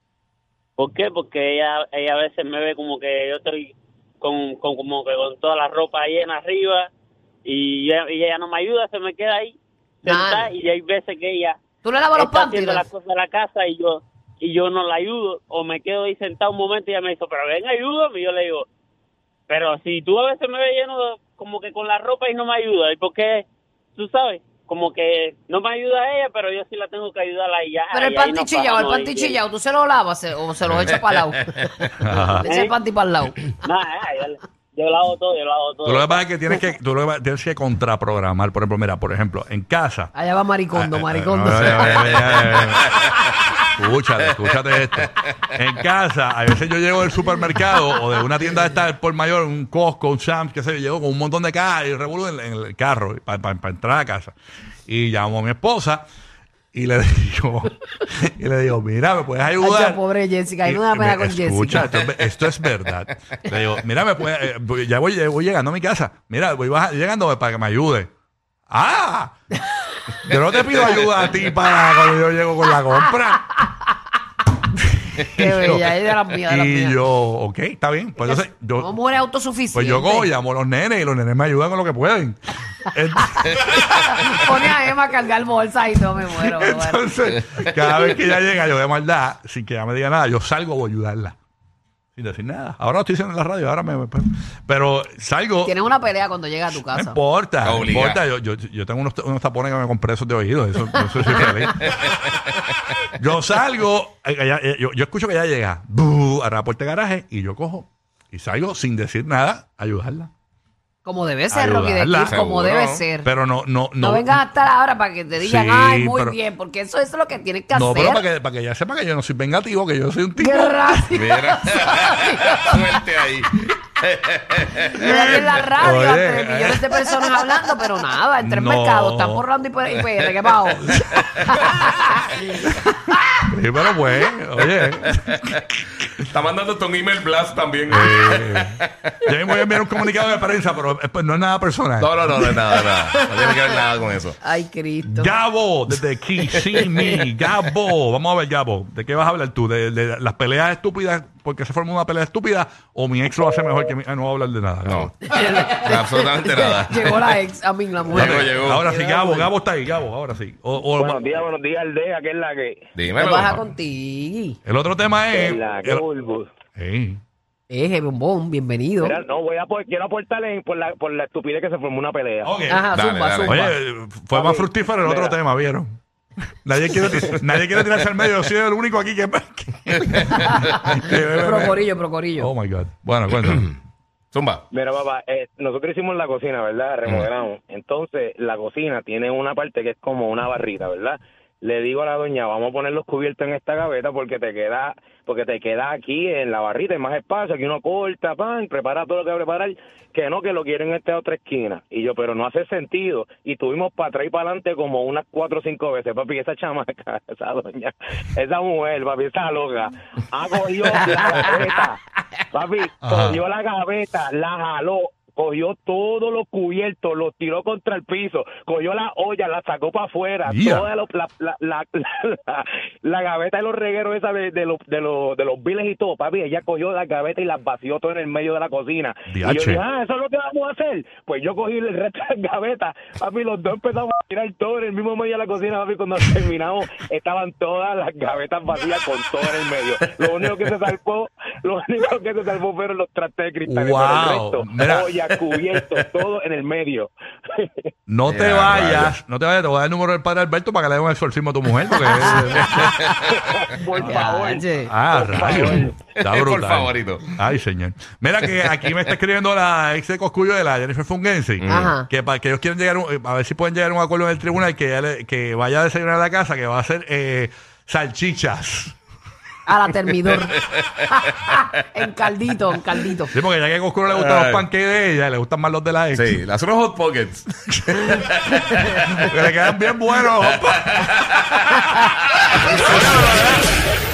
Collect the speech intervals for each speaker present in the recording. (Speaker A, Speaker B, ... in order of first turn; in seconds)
Speaker A: 0.8-6.9, 7.4-11.6, 12.2-18.6, 19.5-29.4, 32.4-32.7, 33.6-36.2
Speaker B: 10.1-10.5, 11.8-12.8, 27.9-33.6, 40.1-43.0, 59.6-61.9, 75.2-77.0, 78.2-80.3, 83.5-87.1, 95.6-97.2, 111.0-113.3, 114.0-118.2, 120.4-123.0, 124.9-132.9, 142.4-143.8, 144.4-145.3, 155.3-159.5, 163.2-164.6, 167.7-169.2, 172.7-173.8, 180.3-182.5, 252.0-253.2, 253.9-254.9, 261.7-262.1, 269.6-273.3
Speaker C: 30.6-30.9, 32.0-32.5, 35.8-40.1, 40.7-43.0, 43.7-54.3, 54.9-56.0, 56.7-60.0, 60.6-68.1, 68.7-69.3, 70.2-73.5, 75.2-75.8, 76.4-78.9, 79.7-82.4, 82.9-84.6, 86.3-91.3, 92.2-95.8, 96.7-101.9, 103.1-110.3, 111.5-112.4, 113.2-114.4, 115.4-116.4, 117.7-121.2, 125.0-127.3, 128.4-129.4, 130.7-131.7, 132.6-132.9, 133.4-136.0, 137.9-142.2, 145.0-155.1, 158.1-161.4, 164.6-166.0, 166.8-167.2, 172.4-172.9, 173.4-176.0, 176.6-181.8, 182.4-183.7, 213.0-213.4, 220.4-220.9, 229.3-229.8, 243.7-245.1, 248.1-253.0, 254.8-268.9, 273.3-276.4, 277.9-278.2, 279.1-281.1, 282.9-283.3
Speaker D: 97.6-98.2, 101.8-102.1, 112.3-113.0, 121.1-125.0, 131.4-131.7, 135.1-135.6, 136.3-139.2, 142.0-144.4, 146.5-147.2, 154.8-155.1, 155.8-157.3, 158.1-158.8, 162.9-163.4, 172.9-173.5, 183.3-183.7, 184.3-184.6, 248.2-249.2, 256.1-257.3, 258.5-258.7, 261.6-261.9, 274.1-274.6, 276.1-279.1, 280.7-281.7
Speaker E: 160.9-162.9, 165.3-166.5, 169.0-172.5, 174.3-175.4, 184.7-212.0, 212.5-247.9, 253.3-256.0